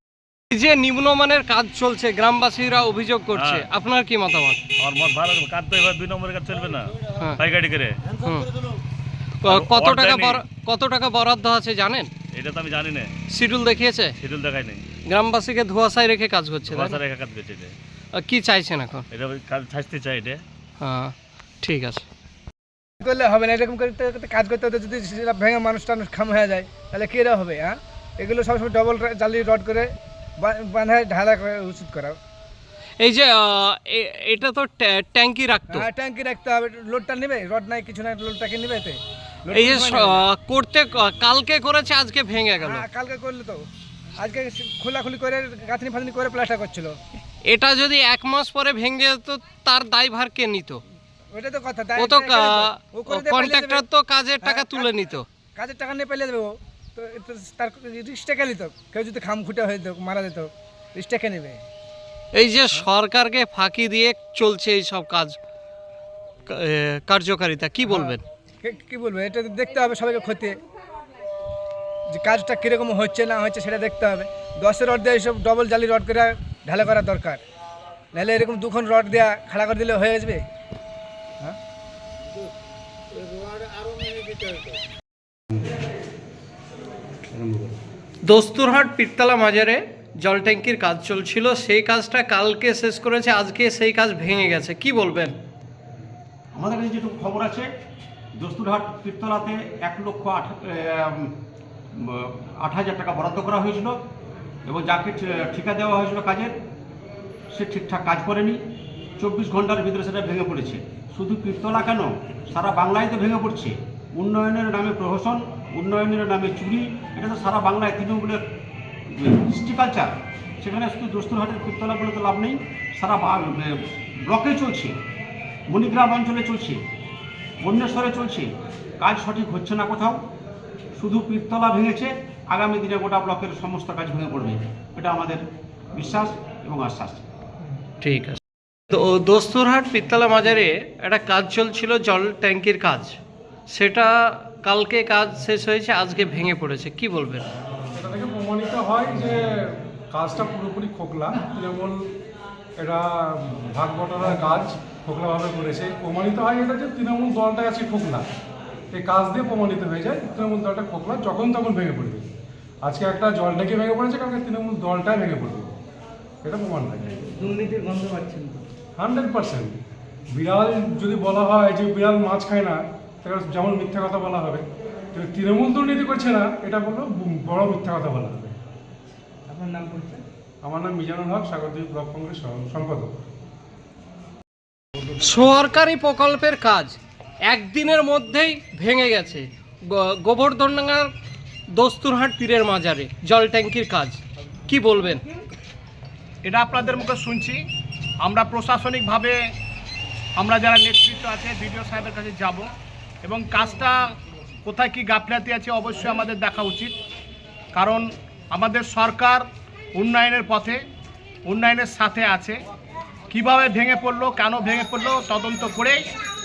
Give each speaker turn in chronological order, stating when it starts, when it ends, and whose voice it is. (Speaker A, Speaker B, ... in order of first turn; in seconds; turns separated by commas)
Speaker A: 0.5-4.6, Speaker B: 3.3-3.6, Speaker B: 4.8-8.0, Speaker A: 8.2-8.5, Speaker A: 9.4-12.1, Speaker B: 9.5-10.4, Speaker B: 12.3-13.1, Speaker A: 13.3-14.2, Speaker B: 14.2-14.8, Speaker A: 15.1-17.0, Speaker B: 16.7-17.8, Speaker A: 18.1-19.1, Speaker B: 19.1-20.4, Speaker A: 20.8-22.0, Speaker C: 23.0-32.2, Speaker A: 33.0-35.9, Speaker C: 35.7-40.2, Speaker A: 39.5-42.8, Speaker C: 42.6-47.0, Speaker A: 47.5-50.8, Speaker C: 51.3-53.8, Speaker A: 52.0-55.2, Speaker C: 54.4-54.9, Speaker C: 55.5-61.6, Speaker A: 62.3-65.4, Speaker A: 66.5-68.2, Speaker C: 67.9-70.6, Speaker C: 72.1-77.4, Speaker C: 78.1-80.5, Speaker D: 83.6-84.3, Speaker A: 88.2-95.3, Speaker E: 96.5-97.7, Speaker E: 98.3-101.3, Speaker E: 102.0-104.0, Speaker E: 104.7-106.5, Speaker E: 107.5-108.6, Speaker E: 109.2-118.4, Speaker E: 119.1-125.0, Speaker E: 125.7-126.8, Speaker E: 127.6-130.2, Speaker E: 130.9-135.4, Speaker E: 135.9-137.2, Speaker A: 138.0-138.4, Speaker A: 138.9-143.2, Speaker A: 143.7-147.5, Speaker F: 147.9-152.1, Speaker F: 152.8-158.3, Speaker F: 158.9-162.3, Speaker F: 162.8-165.7, Speaker F: 166.4-167.2, Speaker D: 167.3-168.7, Speaker F: 169.0-169.8, Speaker F: 170.3-178.6, Speaker D: 179.5-180.2, Speaker F: 180.6-183.1, Speaker A: 185.2-191.1, Speaker A: 191.7-195.2, Speaker G: 196.4-197.6, Speaker G: 198.2-199.4, Speaker G: 200.4-202.7, Speaker G: 203.2-203.9, Speaker G: 204.7-206.9, Speaker G: 207.7-209.4, Speaker G: 209.9-210.8, Speaker G: 211.4-212.6, Speaker G: 213.3-216.0